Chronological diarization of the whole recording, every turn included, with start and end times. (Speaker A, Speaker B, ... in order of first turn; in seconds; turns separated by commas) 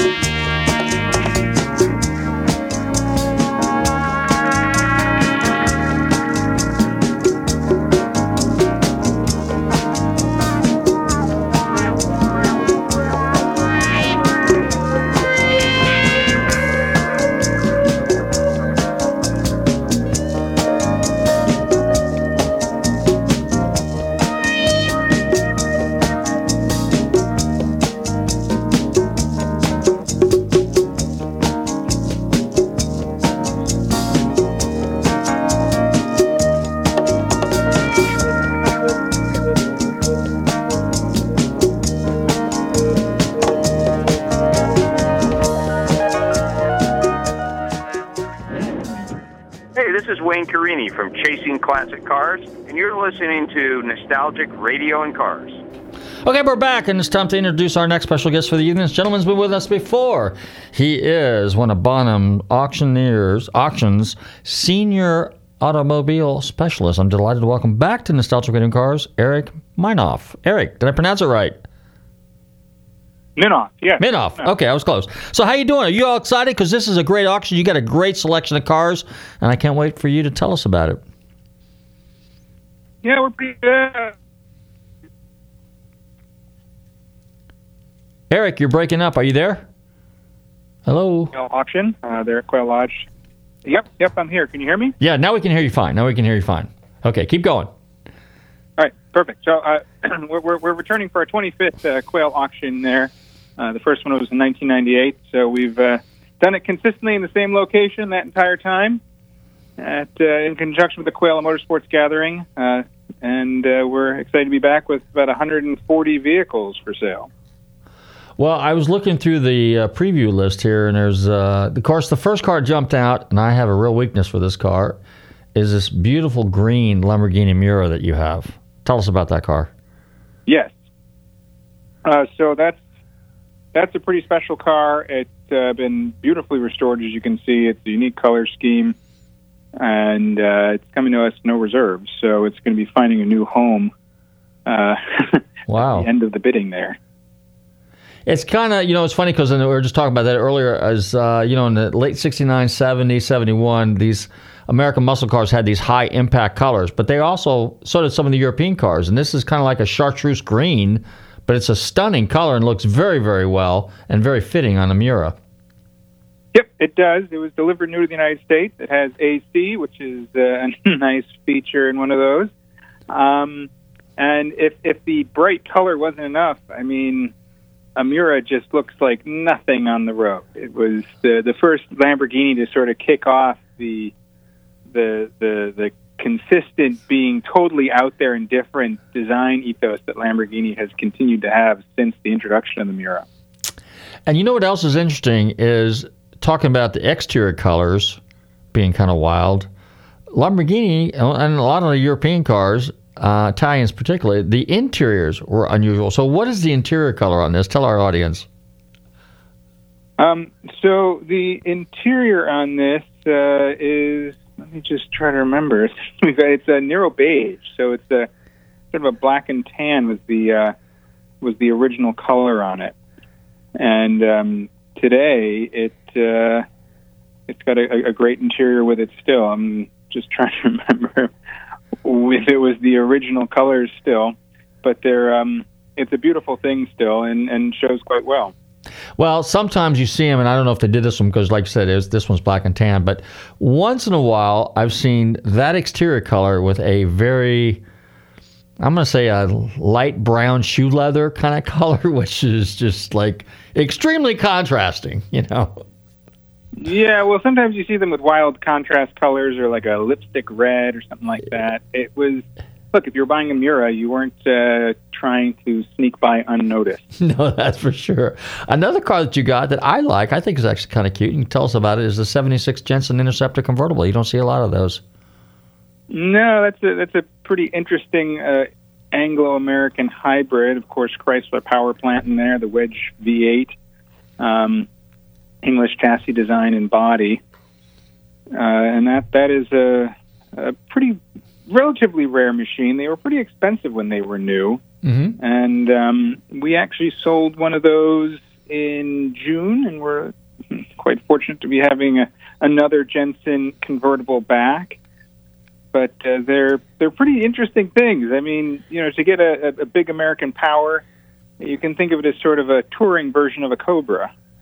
Speaker A: 49.8-55.6, Speaker B: 56.2-71.6, Speaker C: 73.3-74.5, Speaker B: 74.0-81.0, Speaker C: 83.0-84.1, Speaker B: 88.3-89.7, Speaker B: 90.8-91.3, Speaker C: 91.3-93.1, Speaker C: 93.6-95.0, Speaker B: 95.0-97.7, Speaker C: 98.8-109.0, Speaker C: 109.8-117.3, Speaker B: 118.4-125.0, Speaker B: 125.5-129.7, Speaker C: 130.5-130.7, Speaker C: 132.0-132.8, Speaker C: 133.7-138.9, Speaker C: 139.8-143.9, Speaker C: 144.7-147.0, Speaker B: 145.7-146.1, Speaker B: 148.2-165.3, Speaker C: 166.5-172.5, Speaker C: 173.1-177.3, Speaker C: 177.9-184.1, Speaker C: 184.9-193.2, Speaker B: 194.2-198.2, Speaker B: 198.7-199.7, Speaker B: 200.3-208.5, Speaker C: 210.2-218.3, Speaker C: 218.9-220.7, Speaker C: 221.4-222.9, Speaker C: 223.8-226.7, Speaker C: 227.5-231.3, Speaker C: 232.0-238.5, Speaker B: 239.2-247.8, Speaker B: 248.8-255.8, Speaker C: 256.8-267.1, Speaker B: 267.2-275.0, Speaker C: 276.1-283.7, Speaker C: 284.4-284.9, Speaker C: 285.6-287.4, Speaker C: 288.5-294.8, Speaker B: 295.0-295.4, Speaker C: 295.4-305.0, Speaker C: 305.9-311.0, Speaker C: 311.6-314.3